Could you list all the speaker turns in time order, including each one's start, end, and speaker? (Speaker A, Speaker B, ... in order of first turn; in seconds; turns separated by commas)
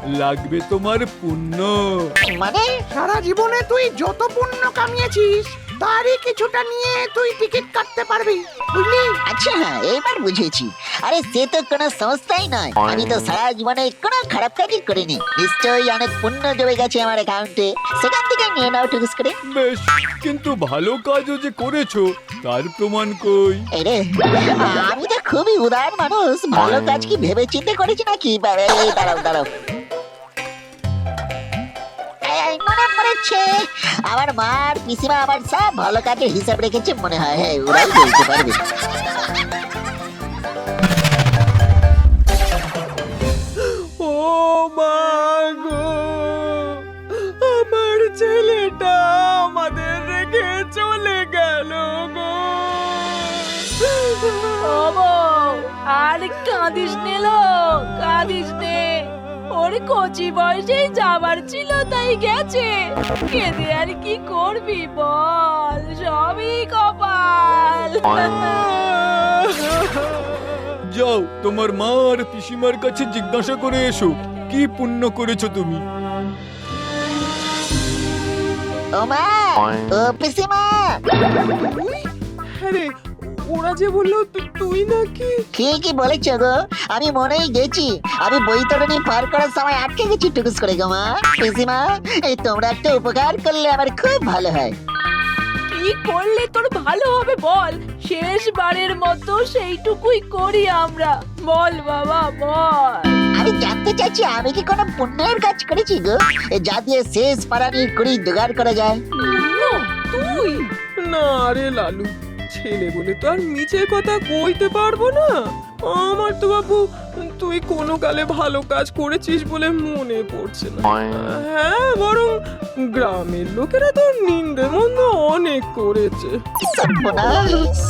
Speaker A: 0.2-2.1, Speaker B: 2.3-2.6, Speaker C: 2.9-9.2, Speaker B: 9.2-19.4, Speaker A: 19.4-23.7, Speaker B: 23.7-29.4, Speaker B: 32.2-38.6, Speaker D: 43.6-54.6, Speaker E: 54.6-58.9, Speaker E: 59.5-68.7, Speaker A: 70.9-75.8, Speaker B: 79.0-81.0, Speaker D: 81.5-82.1, Speaker D: 82.6-85.4, Speaker B: 85.5-94.7, Speaker E: 95.7-103.2, Speaker B: 103.3-109.0, Speaker E: 109.2-110.6, Speaker D: 109.2-122.3, Speaker D: 122.9-126.3, Speaker B: 126.6-127.7